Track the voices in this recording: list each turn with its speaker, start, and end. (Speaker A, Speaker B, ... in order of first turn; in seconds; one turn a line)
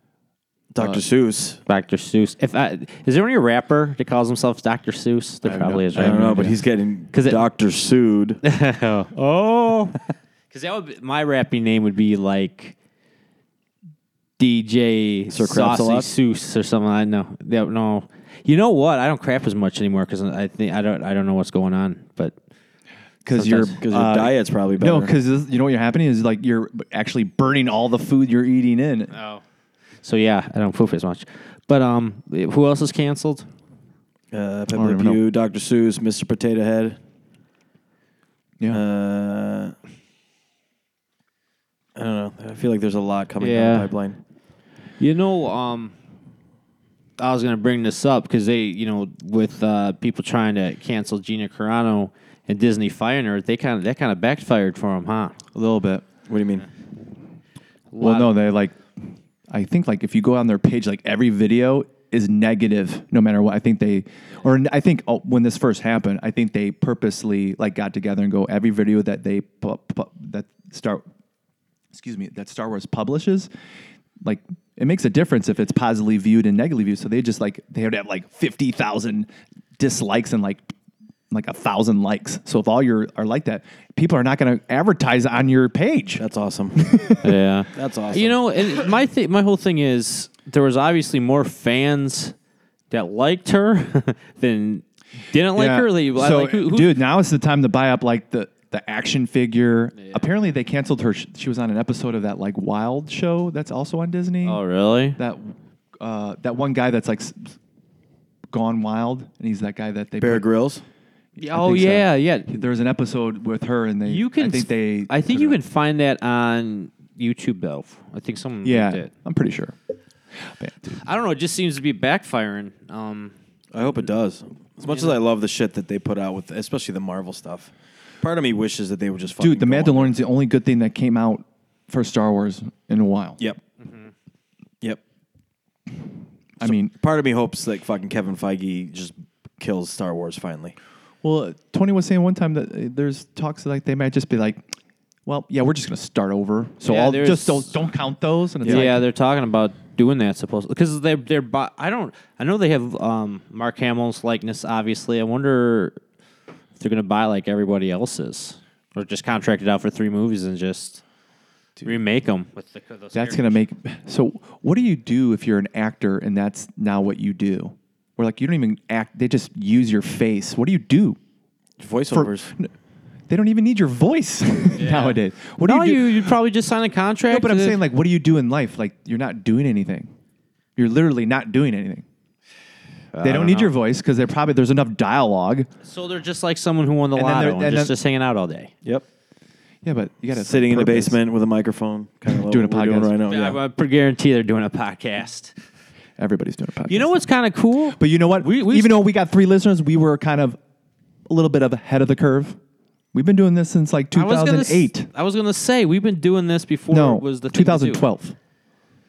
Speaker A: 0.7-1.6
Speaker B: 1.7-6.5
Speaker C: 5.4-6.6
Speaker A: 5.9-8.4
Speaker B: 7.1-7.4
Speaker B: 8.4-10.0
Speaker B: 10.5-12.8
Speaker B: 14.4-22.3
Speaker A: 15.3-16.1
Speaker C: 23.2-29.1
Speaker B: 23.3-23.8
Speaker A: 23.8-25.1
Speaker B: 29.1-29.4
Speaker B: 30.0-33.5
Speaker A: 34.3-37.0
Speaker C: 34.7-35.2
Speaker A: 38.7-39.8
Speaker A: 42.0-44.2
Speaker B: 43.4-43.9
Speaker B: 45.0-45.9
Speaker B: 47.2-55.4
Speaker C: 55.5-56.1
Speaker A: 56.3-56.6
Speaker B: 57.9-58.4
Speaker C: 58.0-58.8
Speaker C: 59.5-71.0
Speaker C: 71.9-73.5
Speaker C: 74.2-80.7
Speaker C: 81.3-87.3
Speaker A: 86.2-87.0
Speaker B: 87.2-92.3
Speaker A: 87.8-88.5
Speaker B: 92.9-97.0
Speaker C: 95.5-104.6
Speaker B: 100.0-100.3
Speaker B: 104.5-105.2
Speaker C: 105.2-107.6
Speaker C: 108.5-110.5
Speaker A: 110.2-110.8
Speaker C: 111.4-115.6
Speaker B: 111.4-112.6
Speaker B: 114.1-119.1
Speaker C: 118.6-119.8
Speaker C: 120.5-121.0
Speaker B: 121.0-123.3
Speaker A: 123.7-130.2
Speaker B: 124.9-125.1
Speaker C: 129.4-133.4
Speaker B: 133.8-134.1
Speaker C: 136.6-136.9
Speaker A: 136.6-140.8
Speaker C: 141.2-144.7
Speaker C: 145.3-149.0
Speaker B: 146.8-147.8
Speaker B: 148.7-156.0
Speaker A: 148.7-148.9
Speaker B: 156.8-161.0
Speaker B: 161.8-163.6
Speaker C: 163.1-171.2
Speaker A: 171.8-172.5
Speaker C: 172.1-172.7
Speaker C: 173.3-176.3
Speaker B: 174.8-177.8
Speaker C: 177.3-180.1
Speaker C: 180.8-182.1
Speaker B: 183.1-183.8
Speaker C: 183.2-185.7
Speaker B: 185.8-188.7
Speaker C: 187.2-187.9
Speaker C: 189.8-191.2
Speaker A: 190.3-193.6
Speaker C: 192.4-193.2
Speaker B: 193.3-195.5
Speaker C: 196.2-197.1
Speaker B: 196.9-199.0
Speaker C: 198.0-200.6
Speaker C: 201.3-202.6
Speaker C: 203.1-205.1
Speaker B: 204.1-208.0
Speaker C: 206.9-208.3